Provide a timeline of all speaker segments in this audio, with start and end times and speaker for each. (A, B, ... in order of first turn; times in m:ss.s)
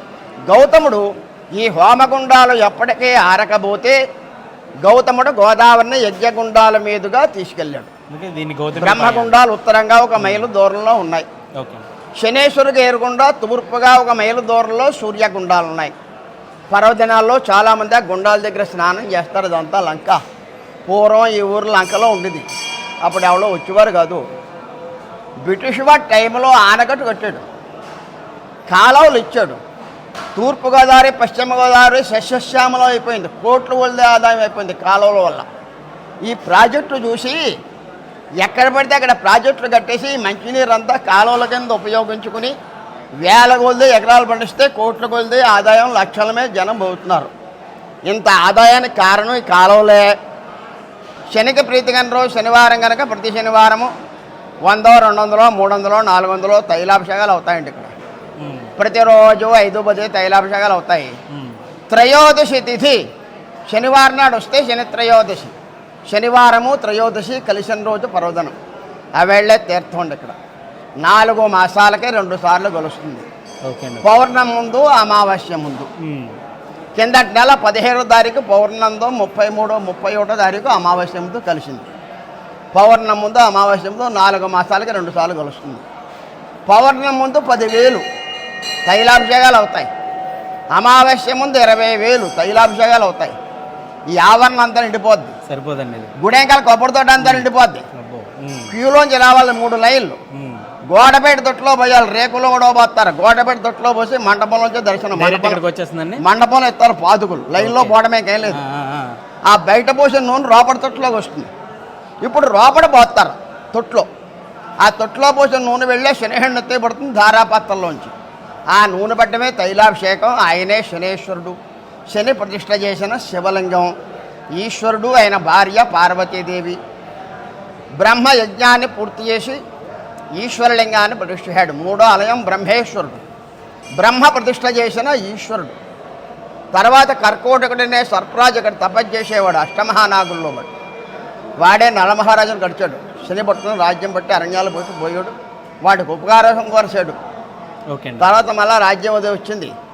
0:00.5-0:04.0 A
0:04.8-0:07.9 A
0:08.1-0:09.3 B
0:08.8-0:11.3 A
0:10.2-0:10.5 B
0:11.6-0:11.8 B
0:12.2-0:15.9 A
0:16.7-0:20.2 A
0:20.9-0:22.4 A
0:23.0-0:24.2 A
0:25.4-0:27.4 A
0:28.7-0:29.6 A
0:30.3-0:35.4 A
0:36.2-0:37.4 A
0:38.4-0:42.5 A
0:43.2-0:47.3 A
0:48.1-0:50.1 A
0:51.3-0:53.9 A
0:54.6-0:57.9 A
0:58.4-0:58.7 B
0:58.8-1:01.1 A
1:01.3-1:01.6 B
1:01.9-1:03.0 A
1:03.7-1:05.5 A
1:06.1-1:08.5 A
1:09.2-1:10.4 A
1:11.0-1:13.3 A
1:13.6-1:14.0 B
1:14.0-1:15.9 A
1:16.0-1:16.4 B
1:17.0-1:21.9 A
1:22.7-1:25.8 A
1:26.7-1:28.0 A
1:28.9-1:29.9 A
1:30.7-1:33.3 A
1:34.1-1:35.3 A
1:35.5-1:36.1 B
1:36.2-1:37.8 A
1:37.2-1:38.7 B
1:38.7-1:40.2 A
1:40.3-1:40.6 B
1:40.9-1:45.6 A
1:45.1-1:46.2 B
1:46.2-1:48.6 A
1:47.6-1:48.0 B
1:48.5-1:49.2 B
1:49.5-1:51.5 A
1:52.2-1:54.1 A
1:54.8-1:58.1 A
1:58.7-2:01.6 A
2:02.1-2:03.9 A
2:04.6-2:06.8 A
2:08.0-2:09.6 A
2:10.4-2:13.2 A
2:14.0-2:15.7 A
2:16.7-2:20.7 A
2:21.6-2:25.3 A
2:25.8-2:27.2 A
2:27.9-2:28.4 B
2:28.2-2:29.7 A